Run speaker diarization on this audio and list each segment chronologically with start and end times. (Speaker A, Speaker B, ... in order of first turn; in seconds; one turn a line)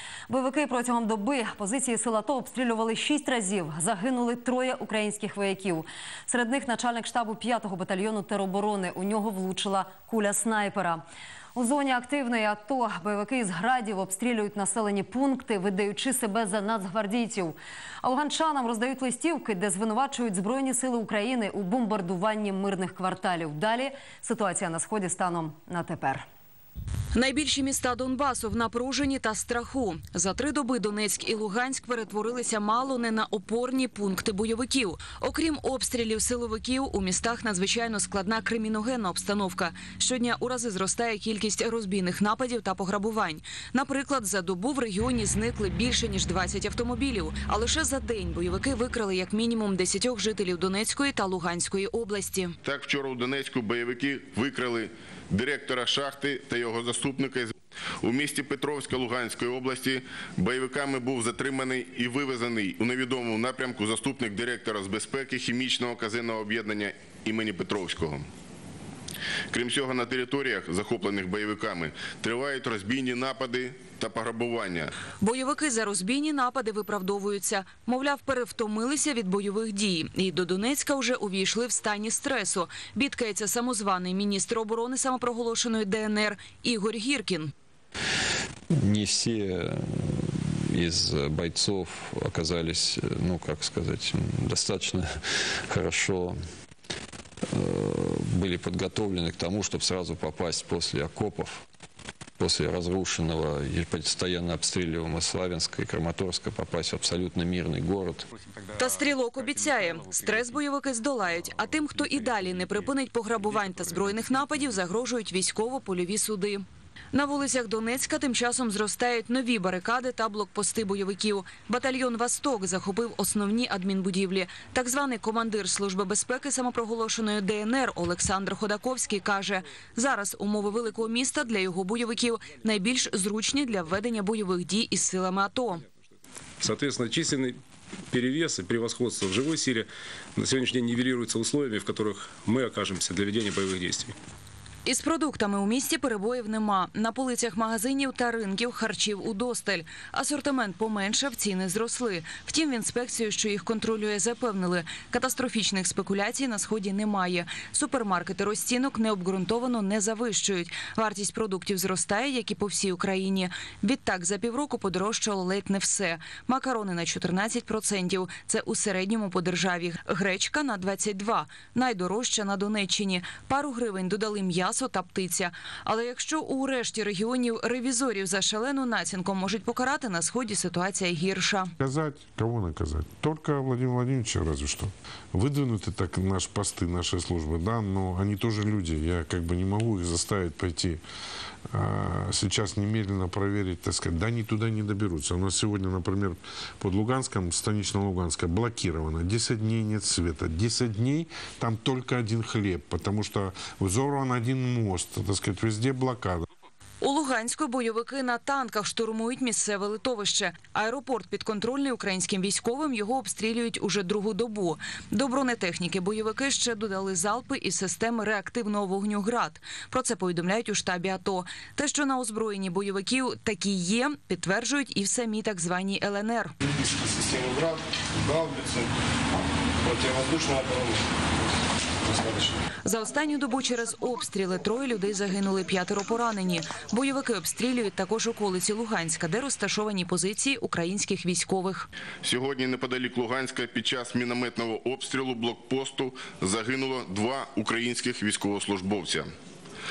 Speaker A: 0.3-11.0
Speaker A: 11.5-26.3
Speaker B: 27.1-52.5
Speaker C: 52.6-68.2
Speaker C: 69.5-74.9
Speaker B: 75.2-87.5
Speaker D: 88.7-95.2
Speaker D: 95.7-96.4
Speaker D: 97.5-101.6
Speaker D: 102.4-108.3
Speaker B: 108.8-135.8
Speaker E: 136.6-144.1
Speaker B: 144.8-181.7
Speaker F: 181.8-191.0
Speaker F: 191.7-206.4
Speaker B: 207.0-226.5
Speaker G: 226.7-228.9
Speaker G: 229.8-231.1
Speaker G: 232.0-232.6
Speaker B: 232.8-241.9
Speaker C: 242.2-249.3